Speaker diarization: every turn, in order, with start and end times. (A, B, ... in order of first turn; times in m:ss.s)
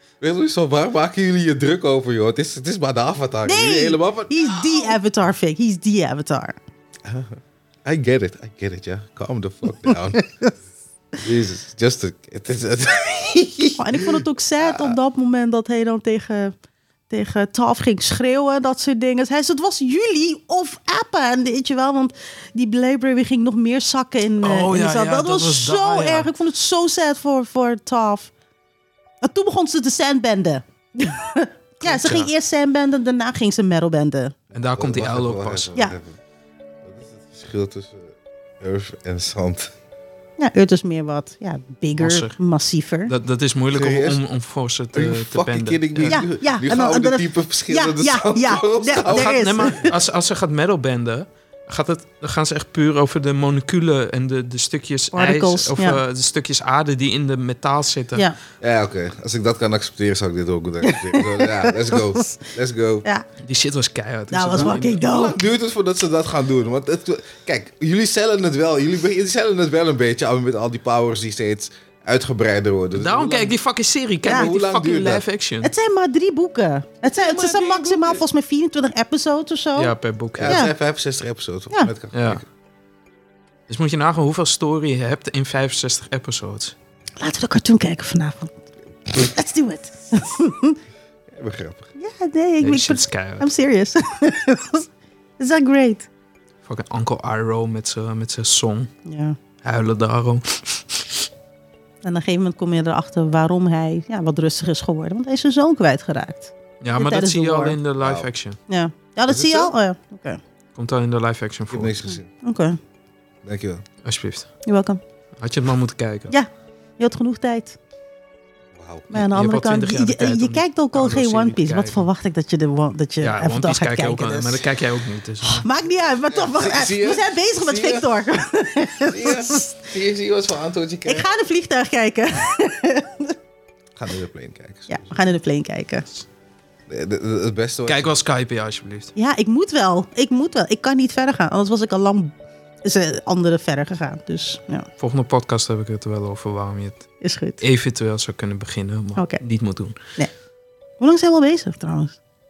0:00.2-0:04.3 A
0:03.5-0:06.6 B
0:07.0-0:10.2 A
0:11.2-0:15.0 A
0:13.8-0:16.6 B
0:17.1-0:28.3 B
0:24.4-0:26.3 C
0:29.2-0:34.4 B
0:31.8-0:32.3 C
0:34.5-0:35.7 C
0:34.5-0:36.1 A
0:36.8-0:39.7 A
0:40.4-0:43.1 B
0:42.0-0:42.4 C
0:43.1-0:46.2 C
0:43.7-0:44.2 A
0:44.9-0:49.9 A
0:46.1-0:49.9 B
0:49.1-0:58.3 C
0:55.1-0:56.0 B
0:58.6-1:03.1 A
1:00.8-1:02.4 B
1:03.4-1:05.0 C
1:04.3-1:05.4 B
1:04.6-1:13.6 A
1:13.0-1:15.7 C
1:14.3-1:15.2 A
1:15.6-1:19.9 B
1:17.0-1:18.2 A
1:19.8-1:20.6 C
1:20.4-1:22.4 A
1:22.1-1:22.4 C
1:23.7-1:26.8 C
1:27.2-1:28.5 B
1:29.1-1:30.8 B
1:31.3-1:31.9 A
1:32.0-1:34.9 B
1:32.6-1:33.5 C
1:35.4-1:36.1 B
1:36.6-1:38.9 C
1:39.1-1:39.4 B
1:39.6-1:41.2 C
1:42.0-1:47.8 B
1:46.8-1:48.6 C
1:48.0-1:48.3 A
1:48.7-1:50.4 B
1:49.3-1:49.7 A
1:50.8-1:52.0 C
1:51.7-1:52.3 A
1:52.4-1:52.8 B
1:53.4-1:53.8 A
1:54.0-1:54.5 C
1:54.7-1:55.0 B
1:55.4-1:56.4 C
1:57.0-1:57.8 B
1:58.8-1:59.1 A
1:59.1-2:04.6 B
1:59.1-2:02.1 C
2:03.2-2:05.6 C
2:05.4-2:09.9 B
2:06.3-2:08.1 A
2:09.1-2:11.3 A
2:11.1-2:13.4 B
2:14.0-2:15.2 A
2:14.9-2:16.1 B
2:16.9-2:18.2 A
2:17.9-2:19.1 C
2:19.2-2:24.9 B
2:25.0-2:27.1 C
2:27.2-2:27.6 B
2:27.6-2:30.0 C
2:29.2-2:29.4 B
2:31.0-2:32.2 B